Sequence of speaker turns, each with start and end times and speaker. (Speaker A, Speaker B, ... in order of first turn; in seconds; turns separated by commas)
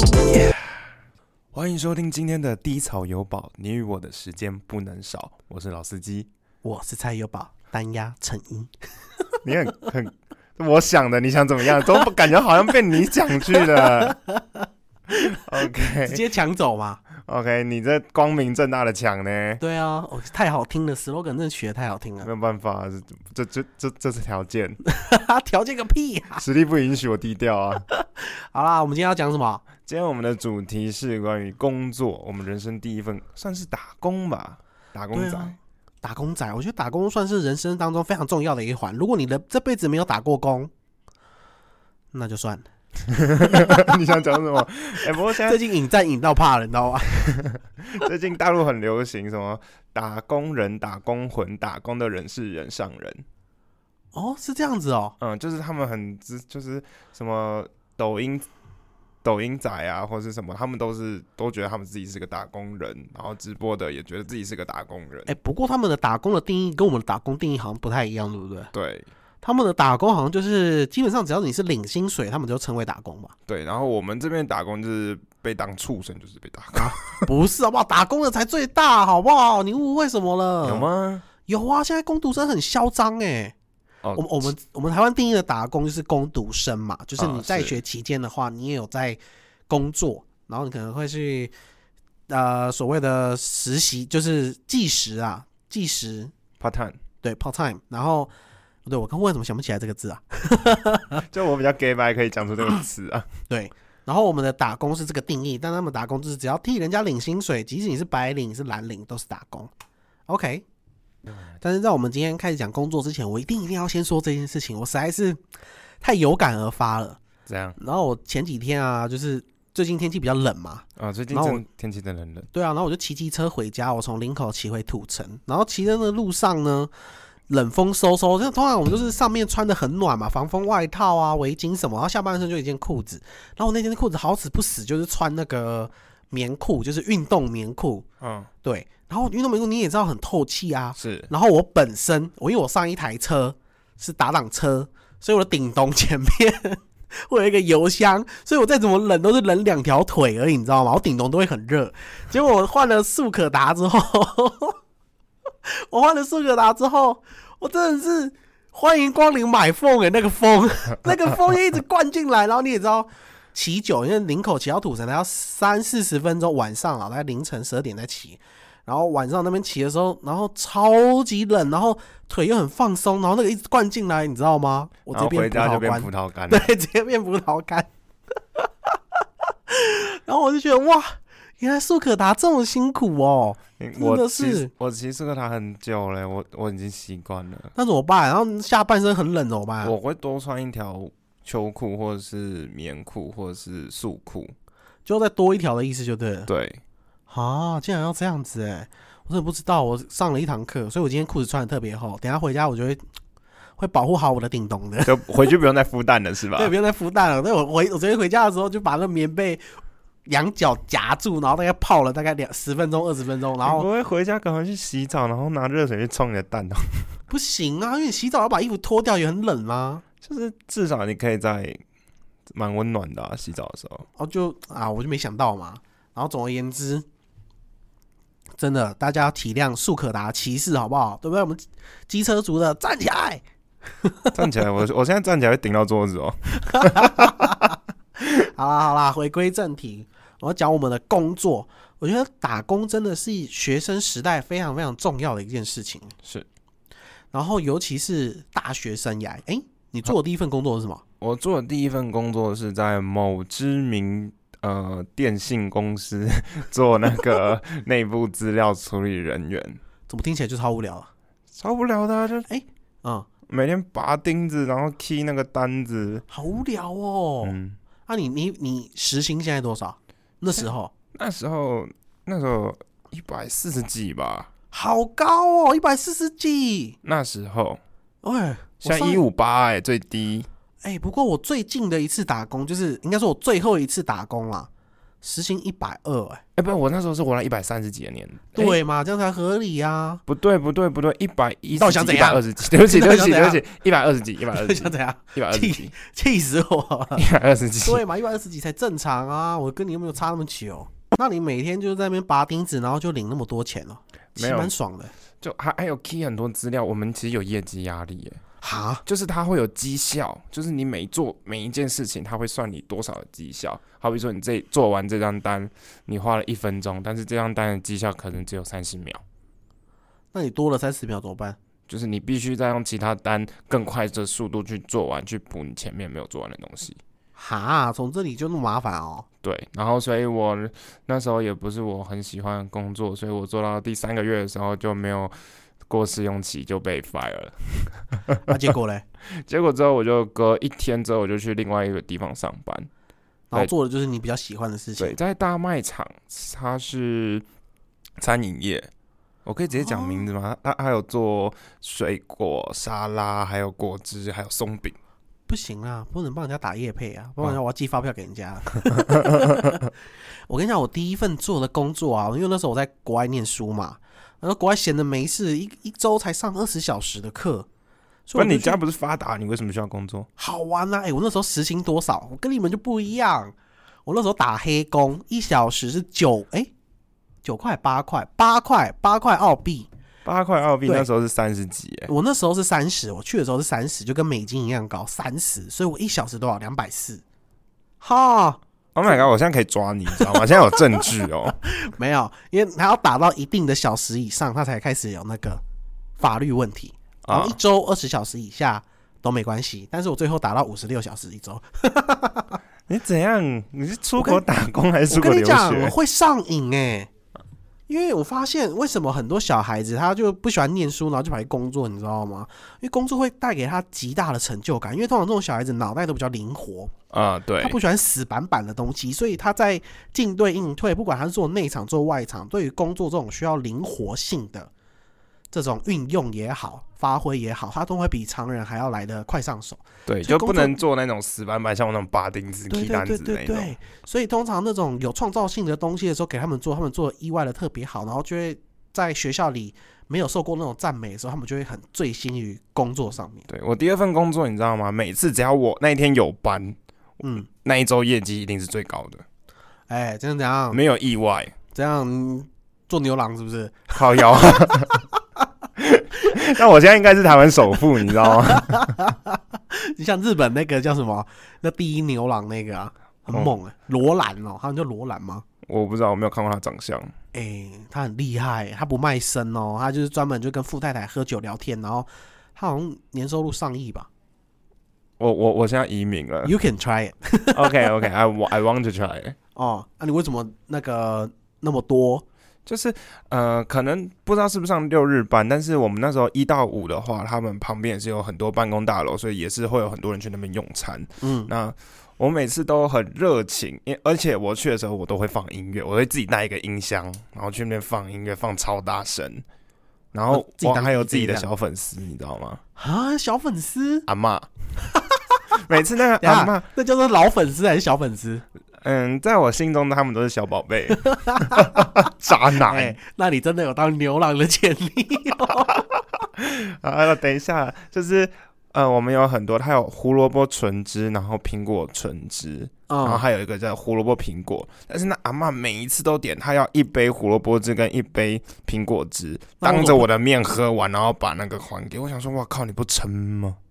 Speaker A: 0.3-0.8, Speaker A: 1.5-6.3, Speaker B: 6.6-8.7, Speaker A: 9.4-14.2, Speaker B: 13.6-15.4, Speaker A: 15.3-16.2, Speaker B: 16.0-17.0, Speaker A: 17.2-19.6, Speaker B: 19.6-22.3, Speaker A: 22.2-24.8, Speaker B: 24.9-26.4, Speaker A: 26.4-27.8, Speaker B: 27.9-29.6, Speaker A: 29.8-35.5, Speaker B: 35.1-40.7, Speaker B: 42.1-42.7, Speaker A: 43.1-45.6, Speaker B: 43.4-44.0, Speaker B: 45.3-47.1, Speaker A: 47.1-53.2, Speaker B: 54.1-55.1, Speaker A: 55.2-58.5, Speaker A: 59.2-65.3, Speaker B: 65.3-68.7, Speaker A: 68.7-69.1, Speaker B: 69.4-73.3, Speaker A: 73.5-77.3, Speaker B: 76.8-80.9, Speaker A: 80.6-81.2, Speaker B: 81.5-83.5, Speaker A: 84.0-84.5, Speaker B: 84.1-91.5, Speaker A: 87.2-87.8, Speaker B: 92.3-96.3, Speaker A: 96.6-97.0, Speaker B: 97.2-98.3, Speaker B: 98.8-101.2, Speaker A: 101.3-103.3, Speaker B: 103.5-109.7, Speaker B: 110.3-110.6, Speaker B: 111.6-115.4, Speaker B: 116.0-117.2, Speaker A: 117.5-117.8, Speaker B: 117.8-121.6, Speaker A: 121.0-122.5, Speaker B: 122.5-126.9, Speaker B: 127.5-138.0, Speaker A: 138.2-138.5, Speaker B: 138.6-154.8, Speaker A: 141.0-141.3, Speaker B: 155.7-177.9, Speaker A: 175.1-176.7, Speaker B: 179.7-184.7, Speaker A: 183.8-187.7, Speaker B: 187.8-189.9, Speaker A: 189.8-194.5, Speaker B: 195.1-196.5, Speaker A: 196.5-196.8, Speaker B: 197.3-203.0, Speaker B: 203.8-205.2, Speaker A: 205.1-206.7, Speaker B: 206.6-209.6, Speaker B: 210.2-213.9, Speaker A: 213.6-217.1, Speaker B: 217.3-220.0, Speaker A: 220.2-221.8, Speaker A: 222.5-224.1, Speaker B: 224.2-227.0, Speaker B: 228.6-233.4, Speaker B: 234.0-234.3, Speaker A: 234.3-237.7, Speaker B: 236.6-246.1, Speaker B: 247.3-251.0, Speaker A: 251.2-259.8, Speaker B: 260.1-261.1, Speaker A: 261.5-262.5, Speaker B: 262.5-263.3, Speaker A: 263.5-266.2, Speaker B: 266.3-267.6, Speaker A: 267.4-267.8, Speaker B: 268.1-270.9, Speaker A: 271.1-274.5, Speaker B: 274.7-277.0, Speaker A: 277.0-277.8, Speaker B: 278.2-279.2, Speaker A: 278.8-280.5, Speaker B: 280.8-284.7, Speaker B: 285.2-286.4, Speaker A: 286.6-288.8, Speaker B: 288.5-290.2, Speaker A: 290.3-295.9, Speaker B: 291.7-293.6, Speaker B: 294.5-297.2, Speaker A: 297.1-298.0, Speaker B: 297.8-305.1, Speaker A: 304.4-304.7, Speaker A: 305.4-308.4, Speaker B: 308.6-309.0, Speaker A: 309.0-319.2, Speaker B: 320.3-321.6, Speaker A: 321.9-327.0, Speaker B: 327.4-329.3, Speaker A: 329.4-335.3, Speaker A: 335.9-338.4, Speaker B: 338.4-339.0, Speaker A: 339.3-342.9, Speaker B: 343.5-345.1, Speaker A: 345.0-347.4, Speaker A: 348.2-348.9, Speaker A: 349.4-355.0, Speaker B: 349.8-350.2, Speaker B: 355.5-359.9, Speaker A: 358.9-359.8, Speaker B: 360.5-367.7, Speaker B: 368.3-368.8, Speaker A: 368.3-370.3, Speaker B: 370.4-373.5, Speaker B: 374.1-376.7, Speaker B: 377.4-379.9, Speaker A: 380.2-382.1, Speaker B: 382.1-387.2, Speaker B: 388.0-389.2, Speaker A: 388.9-391.6, Speaker B: 391.7-395.6, Speaker B: 396.2-402.6, Speaker A: 397.2-397.6, Speaker A: 402.9-405.9, Speaker B: 405.1-407.1, Speaker B: 407.9-416.9, Speaker A: 417.1-417.8, Speaker B: 417.6-424.7, Speaker B: 425.5-430.8, Speaker A: 430.1-433.7, Speaker B: 432.7-443.4, Speaker A: 443.5-446.8, Speaker B: 447.2-447.5, Speaker A: 447.5-449.2, Speaker B: 449.9-450.8, Speaker A: 450.7-451.5, Speaker B: 451.7-455.0, Speaker A: 453.9-455.0, Speaker A: 455.8-459.0, Speaker B: 458.3-465.4, Speaker A: 465.6-467.1, Speaker B: 467.3-474.1, Speaker A: 475.2-476.5, Speaker B: 476.4-477.9, Speaker A: 477.5-479.4, Speaker B: 479.5-482.2, Speaker A: 482.6-499.4, Speaker B: 491.2-491.5, Speaker A: 500.1-502.6, Speaker B: 500.3-501.5, Speaker B: 502.8-504.1, Speaker A: 504.1-504.5, Speaker B: 504.9-505.6, Speaker A: 505.6-506.6, Speaker B: 506.2-508.4, Speaker A: 508.8-513.0, Speaker B: 510.9-512.0, Speaker B: 512.5-515.8, Speaker A: 516.4-533.6, Speaker B: 522.9-523.2, Speaker B: 529.6-530.1